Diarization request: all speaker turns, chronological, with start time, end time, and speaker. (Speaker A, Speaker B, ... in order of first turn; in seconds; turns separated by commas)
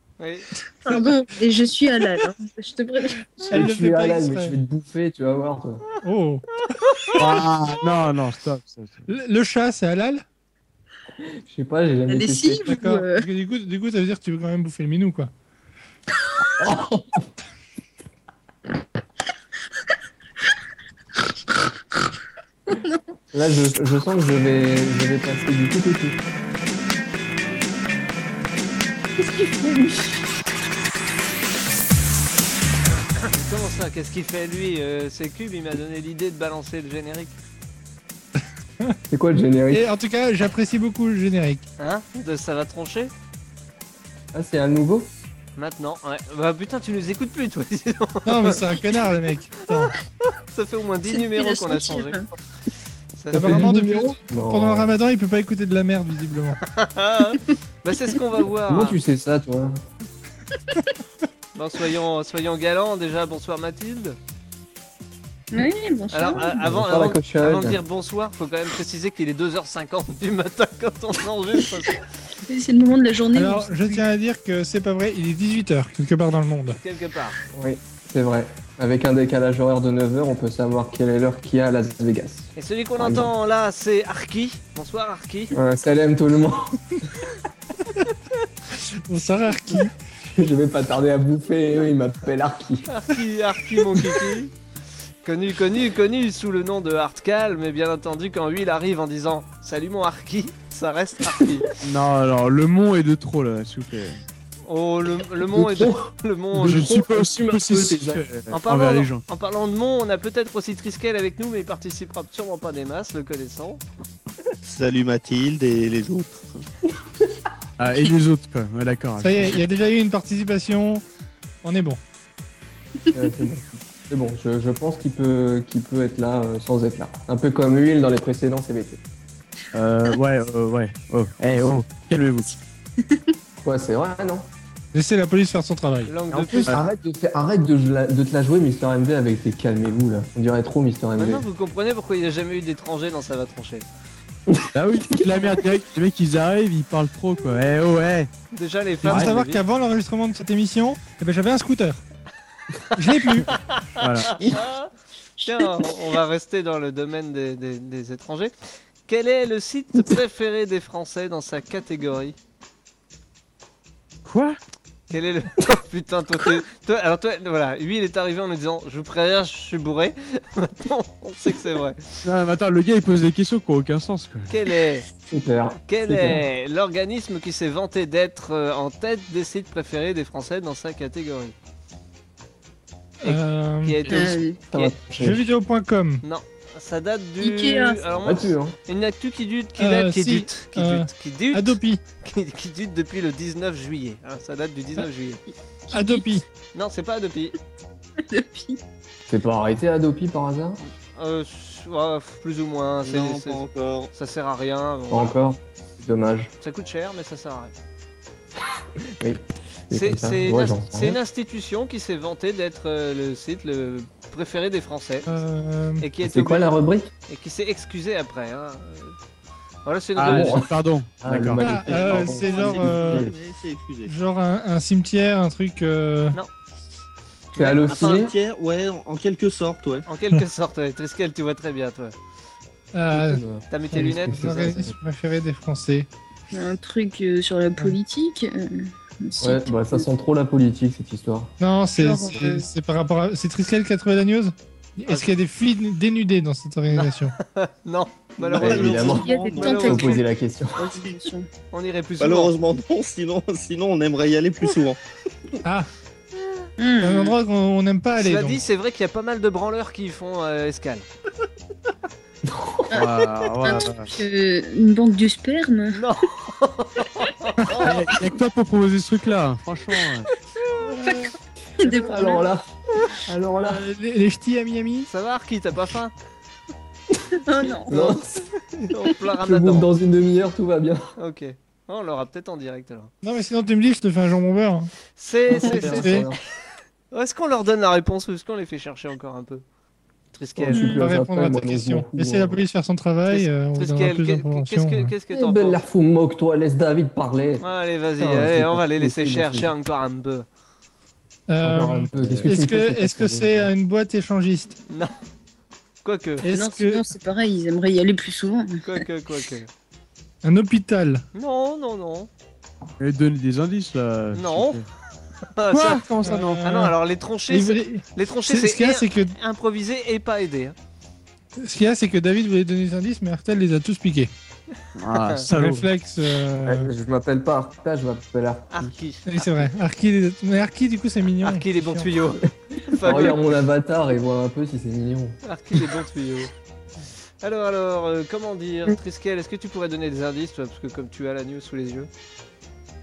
Speaker A: 0.2-0.5, Speaker B: 0.8-3.6, Speaker C: 3.5-4.5, Speaker D: 3.5-5.8, Speaker C: 6.0-6.5, Speaker A: 6.8-7.2, Speaker E: 7.2-9.0, Speaker C: 9.1-10.2, Speaker D: 11.2-12.7, Speaker B: 12.1-13.2, Speaker C: 12.7-15.3, Speaker D: 16.6-17.2, Speaker B: 22.7-23.0, Speaker D: 23.3-26.2, Speaker D: 29.2-30.2, Speaker A: 33.2-37.4, Speaker D: 39.1-39.9, Speaker C: 39.7-41.6, Speaker A: 41.8-43.1, Speaker D: 44.3-45.1, Speaker A: 45.5-48.6, Speaker C: 48.2-49.9, Speaker A: 50.3-52.2, Speaker B: 51.1-52.3, Speaker A: 53.1-53.7, Speaker D: 53.3-54.9, Speaker C: 53.3-56.6, Speaker A: 56.6-59.0, Speaker D: 58.7-59.8, Speaker A: 61.5-64.2, Speaker B: 65.5-66.6, Speaker A: 66.1-72.0, Speaker D: 66.3-67.8, Speaker B: 72.4-74.1, Speaker C: 73.3-76.8, Speaker A: 76.8-77.4, Speaker D: 77.5-83.3, Speaker A: 82.5-85.5, Speaker D: 85.5-87.0, Speaker C: 88.8-89.9, Speaker D: 89.7-92.9, Speaker A: 92.9-94.5, Speaker A: 95.2-101.7, Speaker E: 101.8-104.2, Speaker A: 104.7-106.9, Speaker D: 105.4-108.2, Speaker E: 106.6-109.2, Speaker A: 108.5-113.8, Speaker F: 114.6-116.5, Speaker E: 117.8-119.5, Speaker C: 119.2-121.0, Speaker C: 121.6-122.0, Speaker D: 123.1-129.0, Speaker E: 129.7-132.5, Speaker D: 133.6-134.5, Speaker C: 134.9-136.1, Speaker A: 136.1-136.8, Speaker D: 136.3-141.4, Speaker A: 141.2-143.8, Speaker E: 144.7-148.3, Speaker A: 148.5-149.6, Speaker E: 149.0-149.3, Speaker C: 149.0-152.0, Speaker A: 152.8-154.9, Speaker C: 152.9-153.5, Speaker E: 154.0-154.5, Speaker A: 155.4-158.5, Speaker A: 159.1-162.3, Speaker E: 164.2-164.6, Speaker A: 165.1-172.2, Speaker E: 172.2-174.5, Speaker A: 174.5-175.1, Speaker D: 175.3-176.4, Speaker A: 175.8-181.5, Speaker C: 183.2-184.0, Speaker A: 183.2-184.9, Speaker B: 184.1-184.6, Speaker D: 184.7-185.4, Speaker C: 185.2-186.2, Speaker A: 186.2-195.4, Speaker B: 187.4-188.0, Speaker D: 188.2-188.8, Speaker C: 189.8-192.0, Speaker B: 195.9-196.2, Speaker C: 195.9-196.4, Speaker A: 196.7-197.6, Speaker B: 198.2-198.8, Speaker D: 199.3-200.8, Speaker A: 200.8-205.3, Speaker F: 203.0-204.1, Speaker D: 205.1-206.5, Speaker A: 206.6-207.7, Speaker D: 209.2-211.2, Speaker A: 209.9-215.3, Speaker C: 215.2-216.1, Speaker A: 216.0-219.1, Speaker D: 216.2-217.1, Speaker A: 219.8-220.6, Speaker E: 220.2-221.6, Speaker D: 220.3-223.3, Speaker C: 221.6-223.3, Speaker F: 221.8-224.1, Speaker C: 224.1-226.4, Speaker A: 227.5-228.2, Speaker D: 227.6-228.3, Speaker F: 227.6-230.0, Speaker A: 230.1-232.1, Speaker C: 232.9-236.1, Speaker D: 233.1-234.9, Speaker A: 233.7-234.8, Speaker B: 236.5-240.0, Speaker D: 239.4-241.5, Speaker C: 241.6-247.3, Speaker B: 241.9-242.7, Speaker A: 245.1-245.3, Speaker A: 246.9-250.2, Speaker D: 248.4-250.9, Speaker F: 248.5-250.0, Speaker B: 248.9-250.2, Speaker B: 250.8-251.4, Speaker F: 250.8-251.2, Speaker A: 251.7-252.5, Speaker F: 252.2-255.0, Speaker C: 255.6-255.9, Speaker B: 256.8-257.3, Speaker C: 257.0-258.6, Speaker A: 258.1-261.1, Speaker D: 262.4-262.9, Speaker B: 262.9-266.0, Speaker E: 262.9-264.1, Speaker A: 265.9-267.9, Speaker E: 267.8-270.3, Speaker B: 270.9-272.5, Speaker D: 271.7-272.6, Speaker D: 273.2-273.8, Speaker C: 273.6-275.1, Speaker A: 275.1-276.1, Speaker B: 277.4-277.9, Speaker A: 277.6-279.9, Speaker D: 277.9-278.4, Speaker D: 279.4-281.1, Speaker A: 281.2-283.1, Speaker C: 283.2-284.9, Speaker A: 285.1-286.2, Speaker D: 285.5-286.4, Speaker C: 285.7-286.2, Speaker A: 287.1-289.6, Speaker A: 290.3-290.9, Speaker D: 290.6-292.6, Speaker C: 290.7-295.1, Speaker A: 293.3-295.8, Speaker D: 295.3-297.6, Speaker A: 297.6-300.4, Speaker D: 298.2-299.7, Speaker C: 301.5-304.8, Speaker D: 301.6-303.7, Speaker A: 306.0-306.4, Speaker C: 306.4-307.0, Speaker B: 306.5-308.8, Speaker A: 308.8-309.7, Speaker C: 310.4-311.2, Speaker A: 311.3-312.3, Speaker E: 313.0-314.8, Speaker A: 314.3-314.8, Speaker A: 315.6-320.7, Speaker C: 315.7-316.9, Speaker E: 316.2-316.6, Speaker C: 317.5-319.3, Speaker C: 321.6-324.3, Speaker E: 325.0-325.9, Speaker C: 325.5-326.9, Speaker D: 326.6-329.0, Speaker A: 328.7-329.7, Speaker C: 329.3-332.1, Speaker A: 331.4-333.4, Speaker D: 332.9-335.4, Speaker A: 335.4-336.5, Speaker A: 337.4-342.1